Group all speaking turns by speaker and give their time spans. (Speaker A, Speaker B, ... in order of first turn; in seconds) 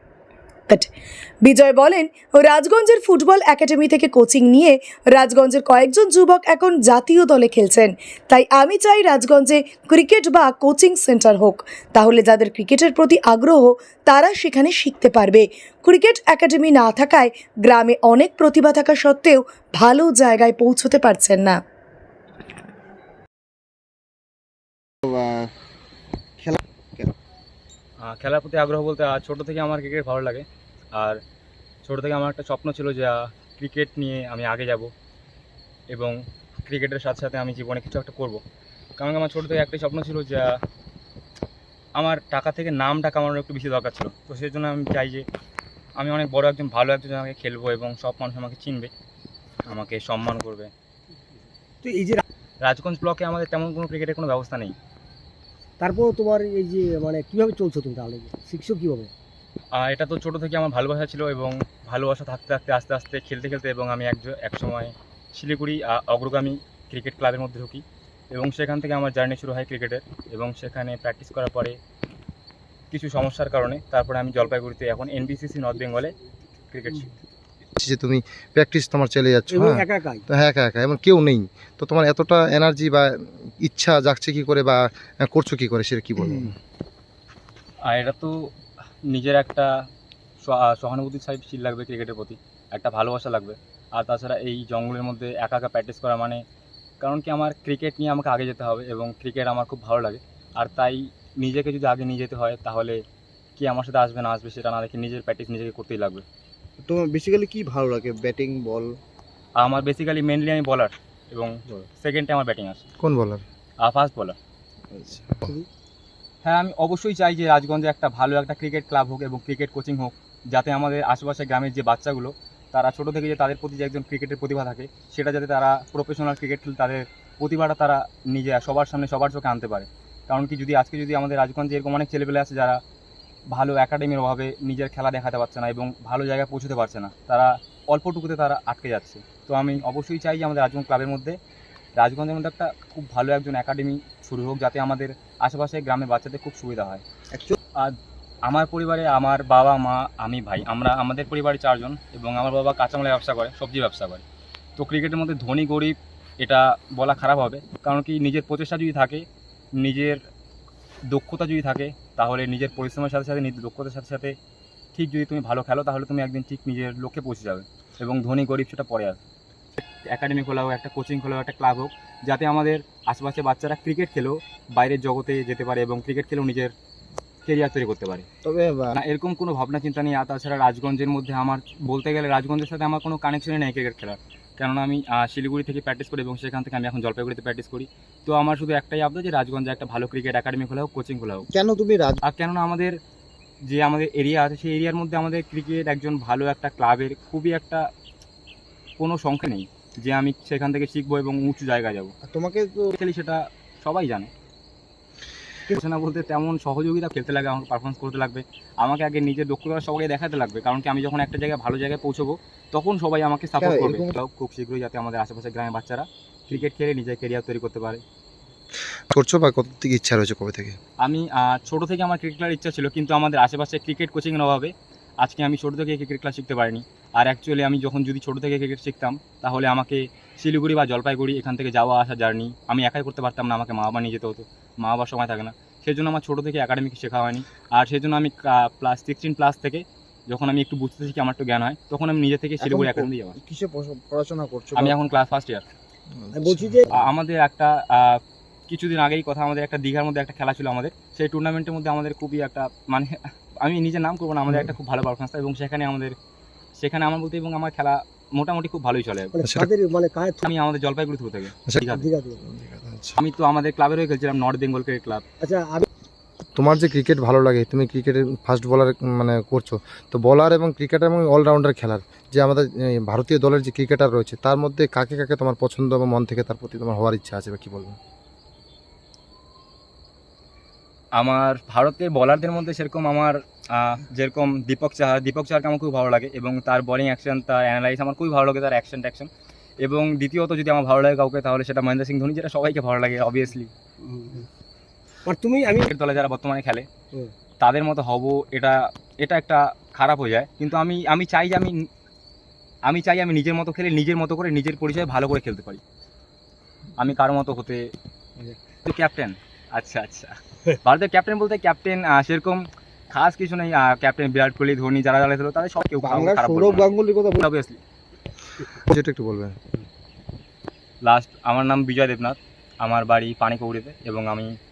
Speaker A: 1.4-21.6
Speaker B: 25.0-25.5, 26.4-27.1, 106.8-108.9, 114.9-115.4, 191.5-192.2, 202.2-202.9, 213.6-214.1, 242.6-244.9, 316.0-317.4
Speaker C: 28.0-31.2, 31.8-34.9, 35.9-38.4, 39.0-40.6, 42.0-45.2, 46.0-48.9, 49.6-50.7, 52.6-54.8, 59.7-71.8, 72.9-76.1, 76.7-77.1, 87.8-88.5, 89.1-89.8, 90.4-96.4, 97.0-103.0, 103.6-106.2, 109.6-112.8, 113.8-114.3, 116.4-132.8, 133.5-141.4, 142.0-147.0, 147.8-154.2, 154.8-159.2, 159.8-160.2, 161.1-164.3, 164.9-169.2, 169.8-176.7, 177.4-178.3, 178.9-191.5, 192.2-193.0, 193.7-197.9, 199.0-202.1, 203.0-204.3, 205.7-218.0, 221.0-243.4, 244.7-245.6, 246.9-256.1, 256.8-259.4, 260.4-262.1, 263.2-265.2, 281.2-289.3, 289.8-293.7, 295.9-296.9, 297.6-301.9, 302.9-305.8, 307.0-307.9, 308.8-317.8, 321.0-324.5
Speaker D: 51.8-52.2, 55.8-59.1, 79.5-80.2, 246.3-246.9, 259.3-260.4, 261.9-262.4, 265.4-265.9, 294.0-294.5, 295.2-295.9
Speaker E: 77.8-86.5, 113.0-113.4, 178.4-178.9, 219.1-220.8, 259.4-259.7, 262.4-263.2, 266.6-278.0, 318.7-319.6